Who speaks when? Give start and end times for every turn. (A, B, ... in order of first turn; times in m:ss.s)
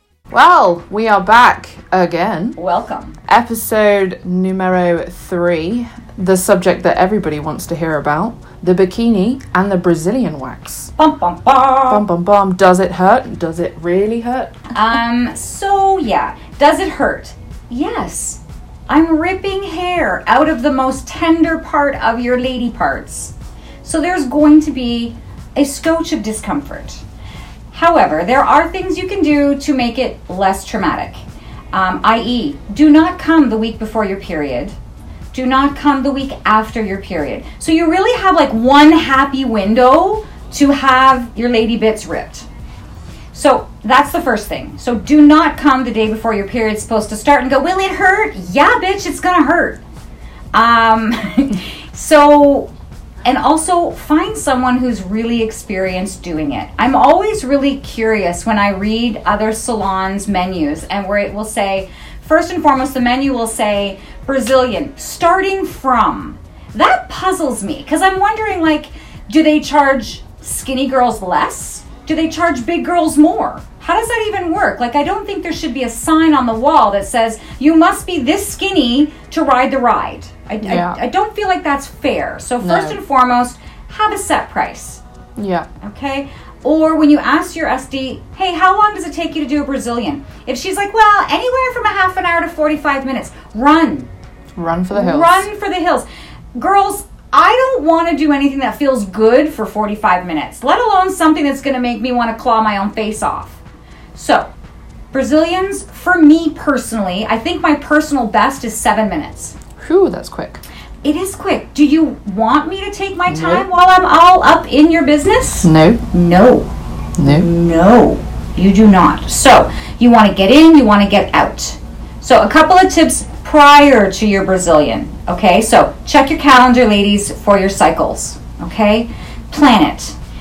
0:00.3-0:02.6 A
0:02.6-0:03.2 B
0:03.3-0:10.9 A
0:11.0-0:12.0 B
0:11.9-0:14.6 A
0:14.7-0:27.0 B
0:27.7-0:31.2 B
0:31.7-0:34.8 B
0:35.3-0:42.5 B
0:43.3-0:49.8 B
0:50.5-0:52.7 B
0:53.2-1:25.0 B
1:20.6-1:21.0 A
1:22.6-1:23.0 A
1:25.4-1:25.7 A
1:25.8-1:34.1 B
1:34.6-1:35.5 A
1:34.9-1:43.6 B
1:44.2-1:44.5 B
1:45.1-1:49.6 B
1:49.8-1:50.6 A
1:51.0-1:56.7 B
1:53.3-1:53.6 A
1:55.6-1:56.0 A
1:57.2-1:57.5 A
1:57.2-2:10.2 B